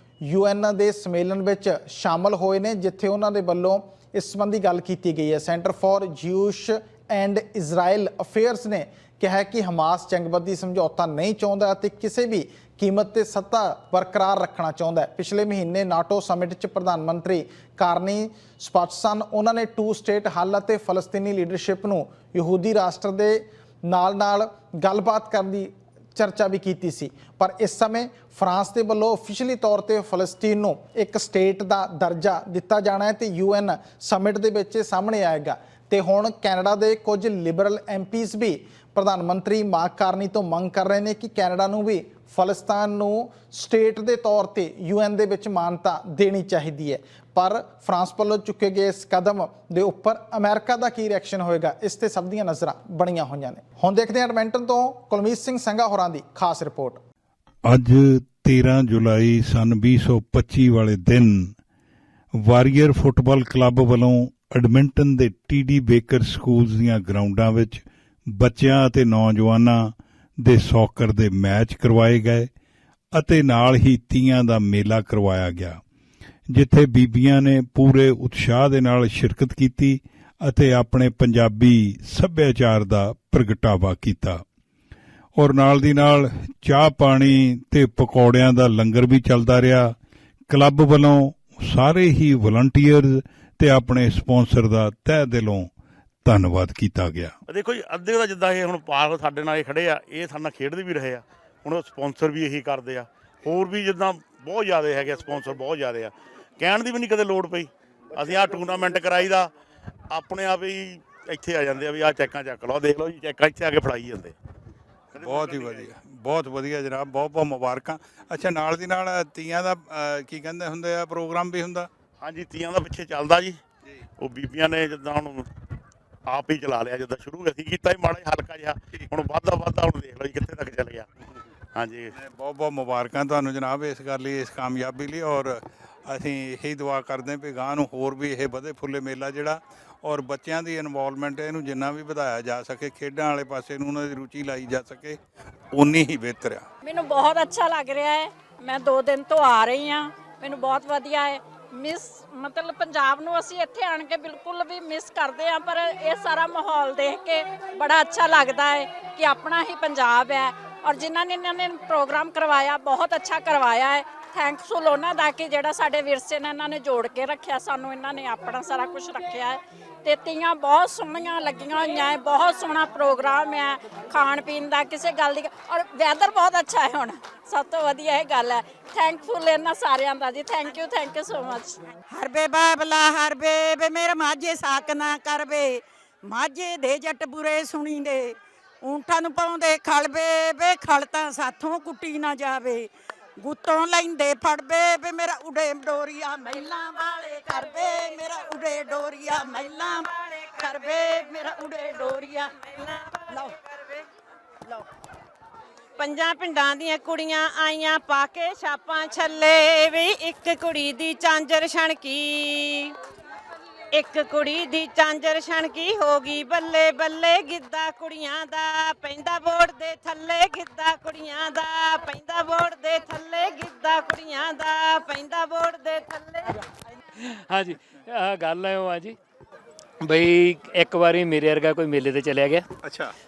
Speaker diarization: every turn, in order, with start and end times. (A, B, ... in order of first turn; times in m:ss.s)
0:00.2-0:57.0 A
0:57.6-1:01.5 B
1:02.4-1:12.5 B
1:13.1-1:15.8 B
1:16.5-1:24.4 B
1:25.4-1:29.9 B
1:30.5-1:35.7 B
1:36.2-1:37.3 B
1:37.5-1:49.5 C
1:50.1-1:54.3 C
1:55.1-1:55.9 C
1:55.2-2:01.9 B
2:02.2-2:03.6 C
2:04.2-2:05.5 C
2:06.3-2:11.1 C
2:11.7-2:12.1 C
2:12.1-2:25.2 B
2:25.7-2:26.6 B
2:26.8-3:01.8 D
3:02.1-3:22.7 E
3:22.8-3:23.1 F
3:23.3-3:23.6 E
3:26.0-3:32.9 F
3:33.9-3:46.6 F
3:47.2-3:49.2 G
3:50.0-3:52.7 G
3:52.8-3:53.1 B